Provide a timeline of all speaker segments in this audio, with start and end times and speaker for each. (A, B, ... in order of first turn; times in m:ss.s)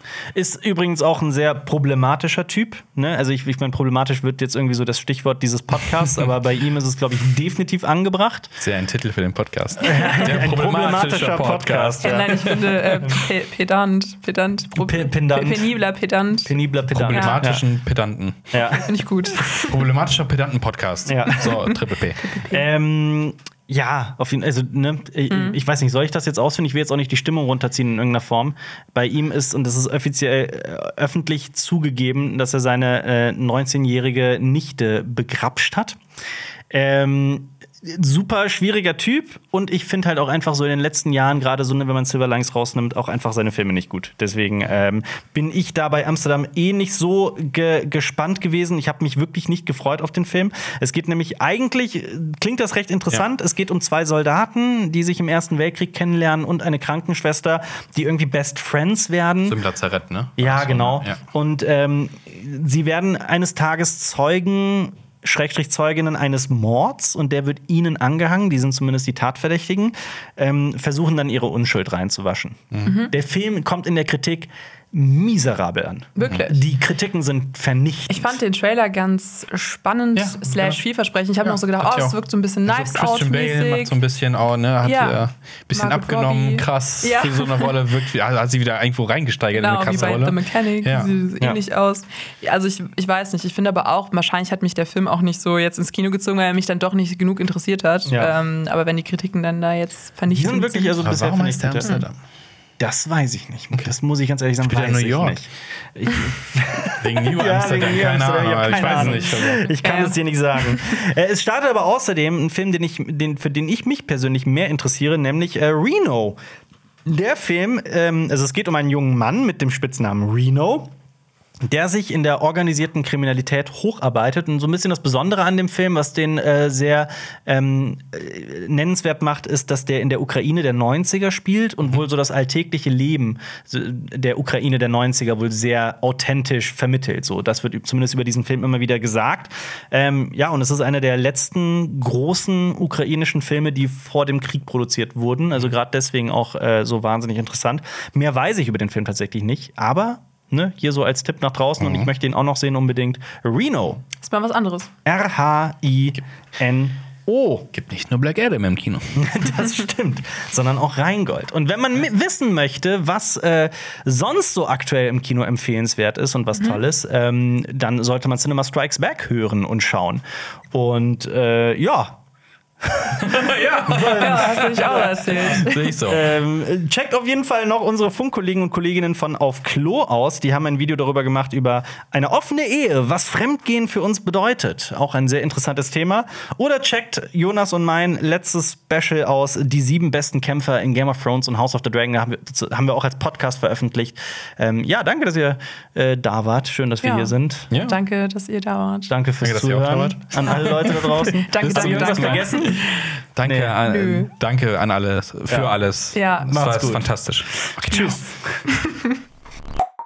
0:00.3-0:08.5 A
0:08.6-0:12.8 B
0:09.8-0:13.2 A
0:10.0-0:10.3 C
0:12.0-0:16.5 C
0:14.8-0:15.7 A
0:16.5-0:17.6 A
0:16.9-0:18.6 B
0:17.1-0:17.4 C
0:18.5-0:18.9 A
0:18.8-0:19.7 C
0:19.7-0:22.4 B
0:21.1-0:21.5 A
0:21.5-0:22.6 C
0:22.5-0:36.0 A
0:25.3-0:25.6 C
0:36.7-0:59.6 A
0:59.5-1:01.2 B
1:00.4-1:18.4 A
1:12.8-1:13.1 C
1:16.2-1:16.6 C
1:18.1-1:24.0 C
1:20.2-1:20.8 B
1:21.4-1:31.2 B
1:24.8-1:27.7 C
1:29.6-1:41.1 C
1:38.1-1:38.3 A
1:40.3-1:42.0 A
1:41.0-1:42.2 B
1:42.8-1:56.4 A
1:44.6-1:45.4 B
1:47.0-1:49.7 B
1:49.8-1:51.0 C
1:57.1-2:00.9 A
2:01.7-2:34.0 A
2:31.8-2:32.1 B
2:34.2-2:34.9 C
2:35.0-2:37.2 A
2:37.3-2:39.3 B
2:39.2-2:52.2 A
2:52.8-3:17.7 A
2:53.2-2:56.3 B
2:54.1-2:55.8 C
3:17.0-3:19.1 C
3:17.7-3:18.0 B
3:19.1-3:22.8 A
3:19.4-3:20.8 B
3:20.6-3:23.1 C
3:21.6-3:22.7 B
3:23.4-3:28.2 B
3:23.4-3:23.8 A
3:23.8-3:24.3 C
3:25.5-3:25.7 A
3:26.1-3:26.6 C
3:26.5-3:28.6 A
3:27.9-3:29.2 C